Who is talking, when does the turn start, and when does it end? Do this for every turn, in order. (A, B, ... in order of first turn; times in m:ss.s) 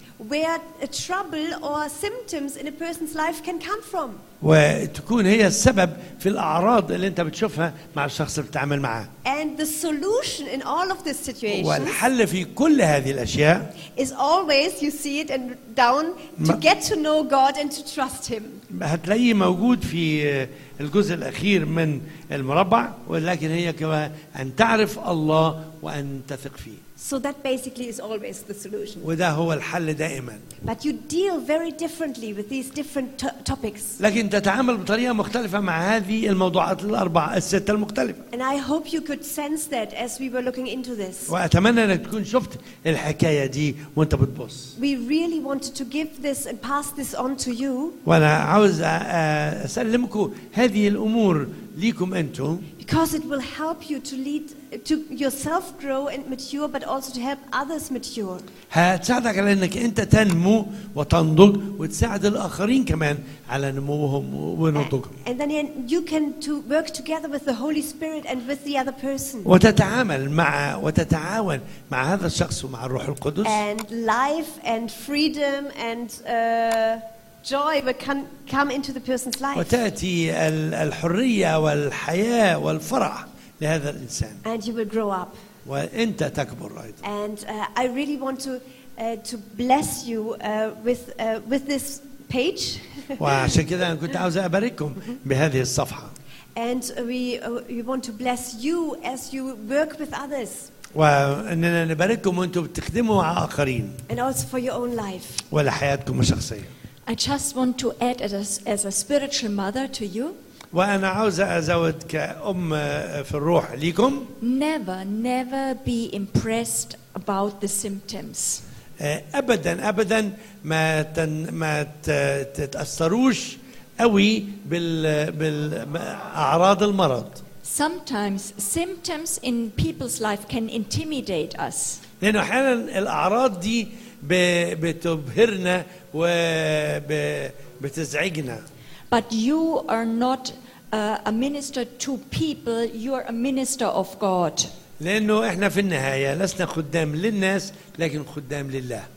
0:00.2-0:04.2 A
0:04.4-0:09.1 B
0:09.2-0:12.0 A
0:11.5-0:13.7 B
0:14.0-0:18.6 A
0:18.7-0:26.8 B
0:27.0-0:29.1 A
0:29.0-0:30.4 B
0:30.6-0:34.0 A
0:34.0-0:38.2 B
0:38.3-0:41.3 A
0:41.3-0:44.7 B
0:44.8-0:48.0 A
0:48.0-0:52.6 B
0:52.8-0:58.5 A
0:58.7-1:05.1 B
1:04.7-1:09.5 A
1:09.4-1:13.6 B
1:13.4-1:19.8 A
1:19.5-1:24.4 B
1:24.4-1:25.4 A
1:25.6-1:27.0 B
1:27.0-1:33.2 A
1:33.2-1:36.1 B
1:36.5-1:40.7 A
1:40.9-1:44.0 B
1:44.1-1:45.4 A
1:45.5-1:46.7 B
1:47.0-1:50.4 C
1:50.7-1:54.3 B
1:54.4-1:58.6 C
1:59.0-2:07.4 B
2:07.6-2:12.0 C
2:12.2-2:18.6 B
2:19.1-2:24.7 C
2:25.0-2:29.0 B